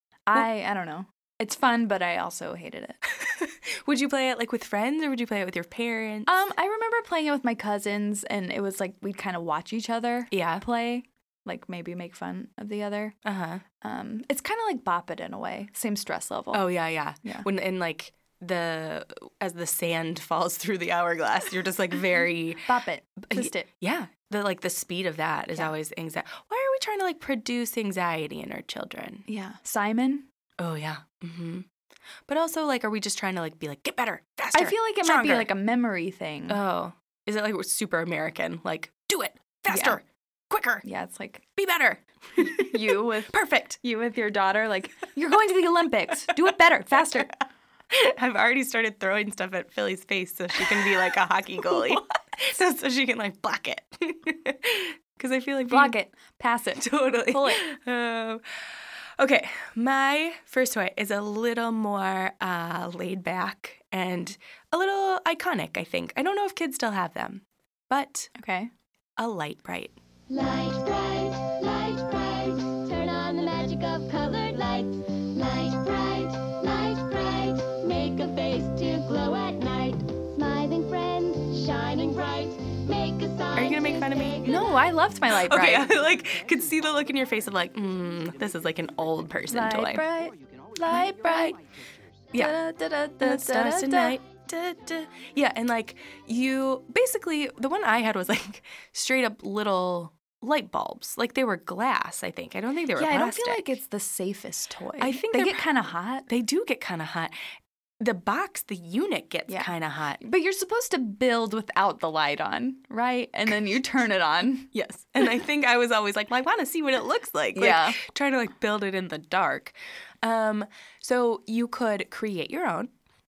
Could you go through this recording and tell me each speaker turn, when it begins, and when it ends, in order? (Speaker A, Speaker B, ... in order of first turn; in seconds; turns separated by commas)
Speaker A: 0.3-3.0, Speaker B: 3.1-6.4, Speaker A: 6.3-13.2, Speaker B: 10.3-10.6, Speaker B: 13.2-13.6, Speaker A: 13.8-16.6, Speaker B: 16.5-22.7, Speaker A: 22.7-23.7, Speaker B: 23.3-29.2, Speaker A: 29.3-30.3, Speaker B: 30.6-31.7, Speaker B: 32.3-35.5, Speaker A: 34.5-36.6, Speaker B: 36.5-40.8, Speaker A: 39.7-40.0, Speaker A: 40.8-41.5, Speaker B: 41.6-43.8, Speaker A: 42.4-47.3, Speaker B: 47.0-47.2, Speaker B: 47.9-56.0, Speaker A: 55.7-57.6, Speaker B: 56.8-58.4, Speaker B: 59.2-68.3, Speaker A: 68.4-68.7, Speaker B: 69.2-70.0, Speaker C: 70.3-84.8, Speaker B: 83.5-84.7, Speaker A: 84.4-86.0, Speaker B: 85.3-91.6, Speaker A: 89.5-90.3, Speaker A: 90.9-91.5, Speaker B: 92.3-103.8, Speaker A: 92.3-94.2, Speaker A: 103.0-106.3, Speaker B: 105.0-105.7, Speaker B: 106.3-107.4, Speaker B: 108.0-110.2, Speaker A: 109.5-114.7, Speaker B: 114.7-122.9, Speaker A: 117.5-118.0